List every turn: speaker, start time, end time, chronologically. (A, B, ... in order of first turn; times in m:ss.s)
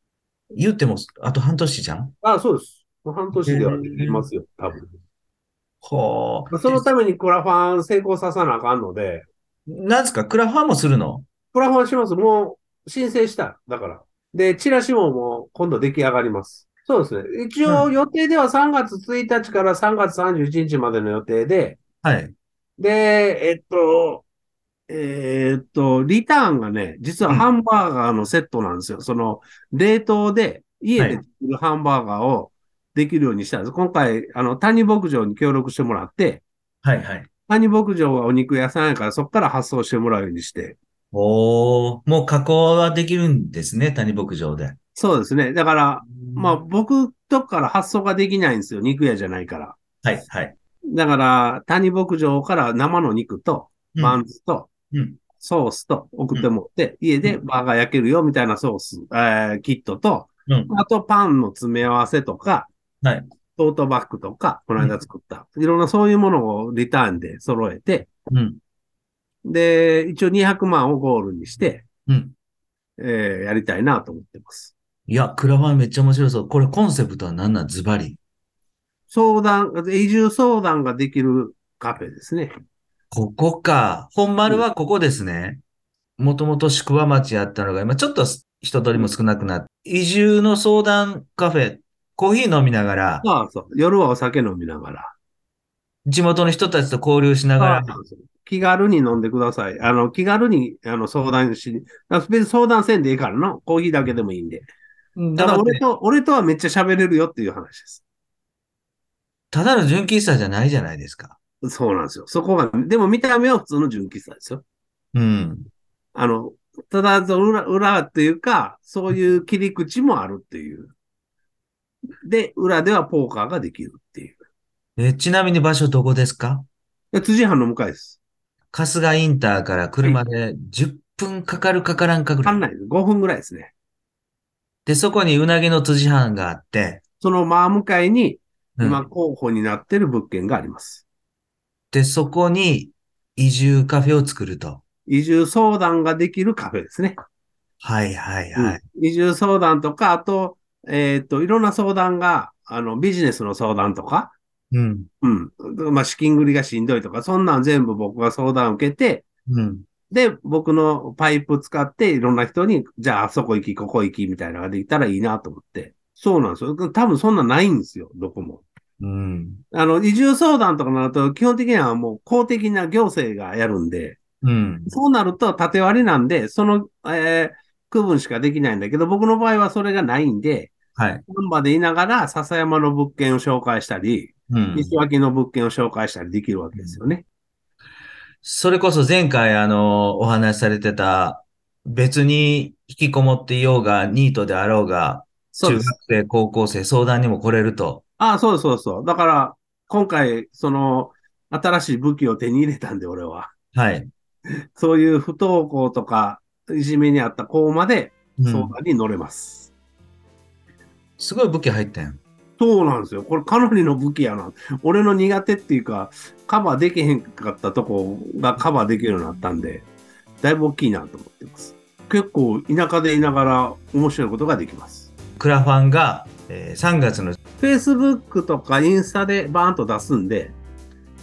0:00.5-0:02.1 A
0:02.2-0:04.9 B
0:03.3-0:04.2 A
0:05.8-0:06.8 A
0:06.5-0:09.3 B
0:09.7-0:11.2 A
0:11.5-0:21.8 B
0:22.0-0:22.4 A
0:22.8-0:24.3 B
0:24.9-0:36.4 B
0:36.8-0:37.3 A
0:37.5-0:40.8 B
0:41.1-0:44.8 A
0:45.0-0:49.8 B
0:46.2-0:46.6 A
0:50.0-0:50.6 A
0:50.9-0:54.7 B
0:54.0-0:54.2 A
0:54.9-0:55.2 A
0:55.4-1:02.7 B
1:00.5-1:00.7 A
1:03.0-1:03.3 A
1:03.6-1:08.1 B
1:08.3-1:08.6 A
1:09.4-1:11.9 B
1:12.1-1:12.4 A
1:13.0-1:14.7 B
1:15.1-1:18.2 A
1:19.1-1:22.5 B
1:23.1-1:25.6 A
1:26.2-1:33.2 A
1:33.2-1:35.1 B
1:36.1-1:38.0 A
1:37.6-1:44.7 B
1:45.2-1:45.8 A
1:45.4-1:48.0 B
1:49.5-1:51.4 A
1:51.6-1:54.6 B
1:55.1-1:55.7 A
1:56.1-2:00.9 B
2:02.2-2:04.4 B
2:05.0-2:06.7 A
2:07.1-2:08.2 B
2:08.7-2:12.6 A
2:12.4-2:13.7 B
2:14.9-2:17.0 A
2:17.2-2:21.0 B
2:18.8-2:19.0 A
2:21.9-2:24.8 A
2:25.1-2:27.2 B
2:27.8-2:28.8 A
2:28.6-2:34.4 B
2:34.7-2:35.1 A
2:35.2-2:39.2 B
2:39.5-2:39.9 A
2:40.1-2:48.6 B
2:49.0-2:49.6 A
2:49.7-2:54.2 B
2:54.4-2:54.9 A
2:54.9-3:00.8 B
3:01.0-3:01.2 A
3:01.3-3:07.2 B
3:04.5-3:05.0 A
3:08.4-3:18.0 A
3:15.5-3:15.9 B
3:18.2-3:23.5 B
3:23.7-3:24.1 A
3:24.8-3:29.7 B
3:28.4-3:28.7 A
3:31.2-3:32.2 A
3:32.6-3:39.9 B
3:40.4-3:45.1 B
3:45.4-3:47.4 A
3:47.6-3:50.6 B